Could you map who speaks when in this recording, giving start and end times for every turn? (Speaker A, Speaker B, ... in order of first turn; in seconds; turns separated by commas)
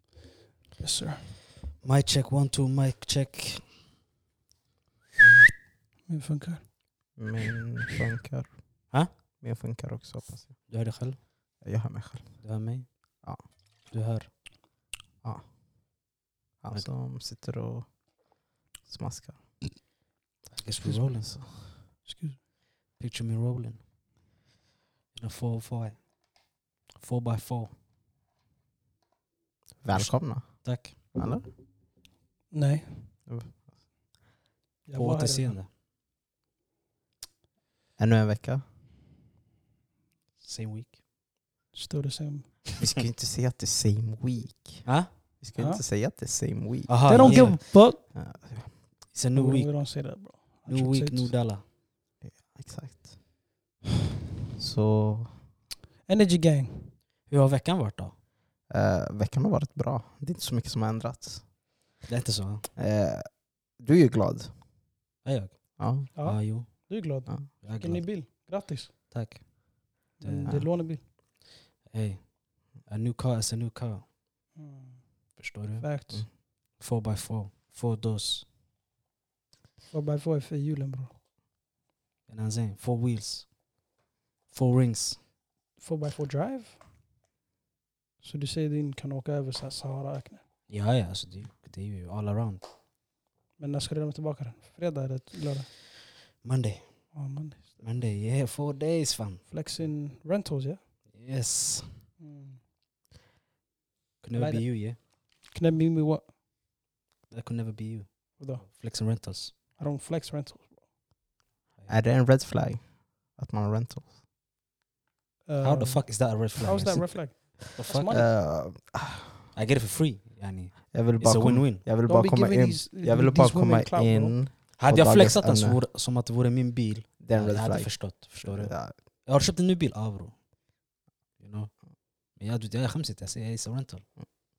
Speaker A: 0.8-1.4, Speaker B: 1.8-3.7, Speaker A: 6.1-6.7, Speaker C: 7.2-10.5, Speaker B: 10.7-11.2, Speaker C: 11.6-12.4, Speaker B: 12.4-12.9, Speaker B: 13.9-14.3, Speaker C: 16.6-17.9, Speaker C: 18.9-19.4, Speaker B: 20.6-21.4, Speaker C: 21.2-21.5, Speaker A: 22.0-22.4, Speaker B: 23.0-23.8, Speaker B: 25.1-26.0, Speaker B: 27.0-27.7, Speaker C: 29.8-31.5, Speaker B: 29.9-31.0, Speaker A: 32.5-33.1, Speaker C: 33.3-33.6, Speaker A: 34.9-35.6, Speaker B: 34.9-35.7, Speaker C: 38.0-38.6, Speaker B: 40.4-41.0, Speaker A: 41.7-42.6, Speaker C: 42.8-44.9, Speaker B: 44.9-45.1, Speaker C: 45.4-48.7, Speaker A: 45.6-45.8, Speaker B: 46.9-47.7, Speaker A: 47.1-48.0, Speaker B: 49.1-49.9, Speaker A: 49.4-51.4, Speaker B: 50.7-51.6, Speaker C: 52.2-53.2, Speaker C: 54.6-55.3, Speaker A: 56.1-57.0, Speaker B: 57.3-58.1, Speaker C: 58.7-61.4, Speaker B: 62.1-62.7, Speaker C: 62.8-64.5, Speaker B: 65.2-66.9, Speaker C: 65.8-66.1, Speaker A: 66.2-68.9, Speaker B: 67.6-68.1, Speaker B: 69.1-69.5, Speaker A: 70.2-71.0, Speaker C: 70.4-70.7, Speaker B: 71.8-74.0, Speaker A: 74.6-76.2, Speaker B: 75.4-76.1, Speaker B: 76.8-78.5, Speaker A: 79.9-81.1, Speaker B: 82.3-83.5, Speaker B: 84.5-85.2, Speaker A: 85.8-86.8, Speaker A: 88.2-90.4, Speaker B: 90.7-92.6, Speaker A: 93.6-95.7, Speaker B: 96.4-96.8, Speaker A: 97.1-97.8, Speaker B: 97.8-99.4, Speaker A: 99.5-100.8, Speaker B: 101.1-102.0, Speaker A: 102.2-102.6, Speaker B: 104.2-105.0, Speaker A: 104.4-106.3, Speaker B: 107.3-109.5, Speaker A: 108.4-108.7, Speaker A: 109.8-110.8, Speaker C: 111.9-114.1, Speaker A: 115.5-118.3, Speaker B: 115.6-117.2, Speaker B: 117.8-118.3, Speaker C: 118.1-119.4, Speaker B: 119.5-121.8, Speaker C: 120.9-125.8, Speaker A: 122.1-124.3, Speaker B: 124.8-130.3, Speaker C: 127.2-128.9, Speaker B: 131.4-131.7, Speaker B: 132.4-134.1